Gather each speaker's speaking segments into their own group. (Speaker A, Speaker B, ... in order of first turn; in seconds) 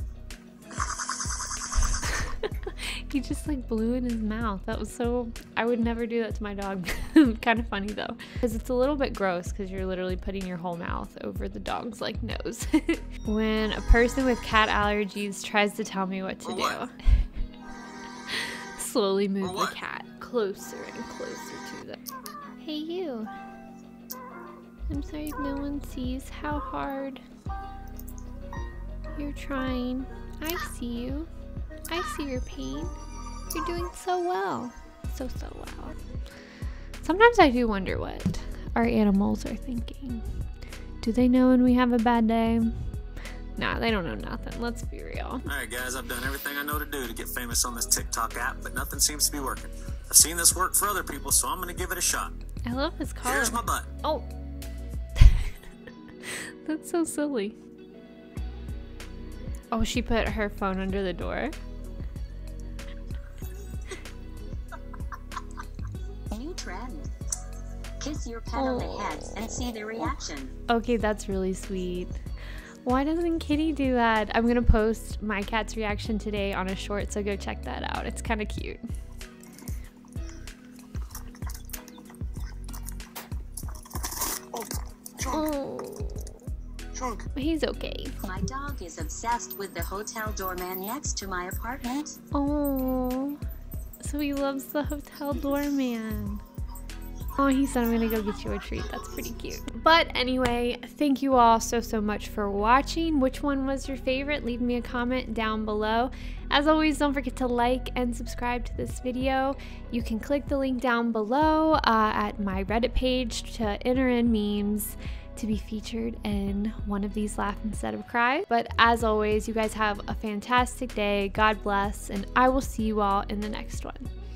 Speaker A: 2.0-17.2, 18.3-22.0, 22.6-23.3, 24.9-27.2, 29.1-31.3, 31.9-33.0, 33.5-36.0, 37.0-40.2, 41.0-42.8, 43.6-45.5, 52.7-54.3, 55.2-55.5, 56.2-57.6, 59.7-61.5, 68.6-69.1, 70.7-72.2, 72.8-78.8, 85.3-86.4, 87.3-88.2, 92.3-93.4, 94.0-96.4, 97.4-124.1
Speaker B: 16.4-16.8, 19.4-19.8, 45.5-52.3, 53.2-53.9
Speaker C: 66.3-67.1, 68.0-70.5, 88.2-92.2